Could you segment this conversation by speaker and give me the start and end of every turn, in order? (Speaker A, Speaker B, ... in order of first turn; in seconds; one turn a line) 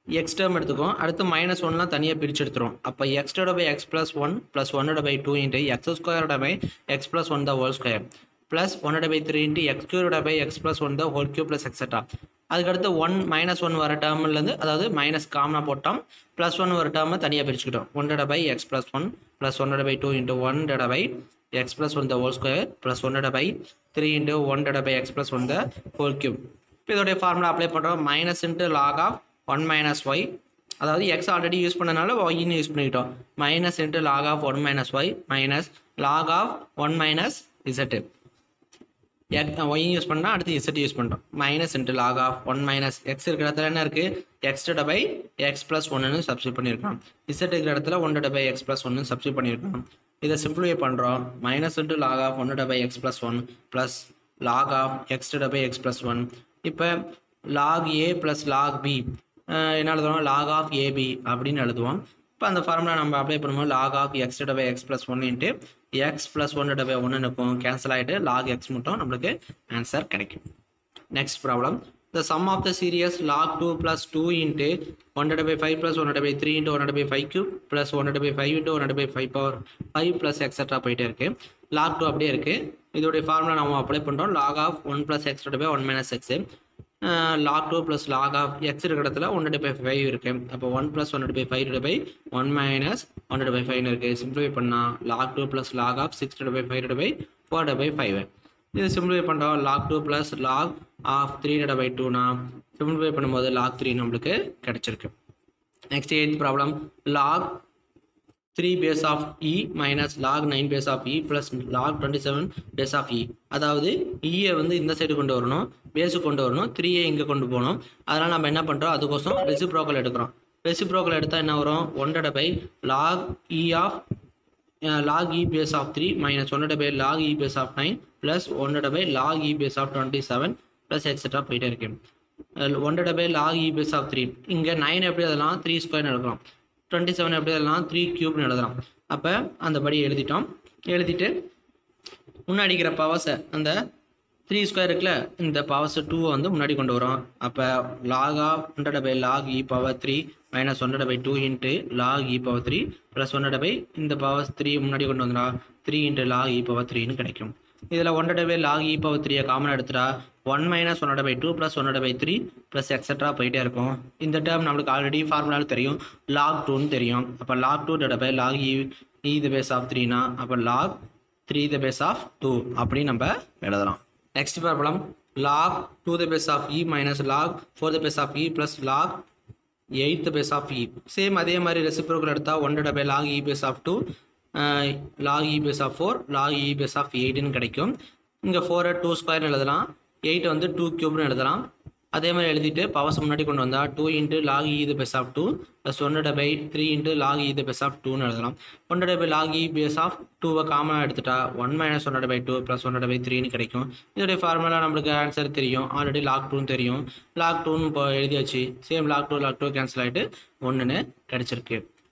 Speaker A: 0.1-30.3
Speaker A: 30.8-38.0
Speaker A: 39.3-57.0
Speaker A: 57.5-70.4
Speaker A: 71.1-86.4
Speaker A: 87.0-105.1
Speaker A: 105.9-107.6
Speaker A: 108.5-124.0
Speaker A: 124.8-132.0
Speaker A: 132.6-141.3
Speaker A: 142.5-143.8
Speaker A: 144.5-179.2
Speaker A: 180.0-184.0
Speaker A: 184.5-187.9
Speaker A: 188.4-211.8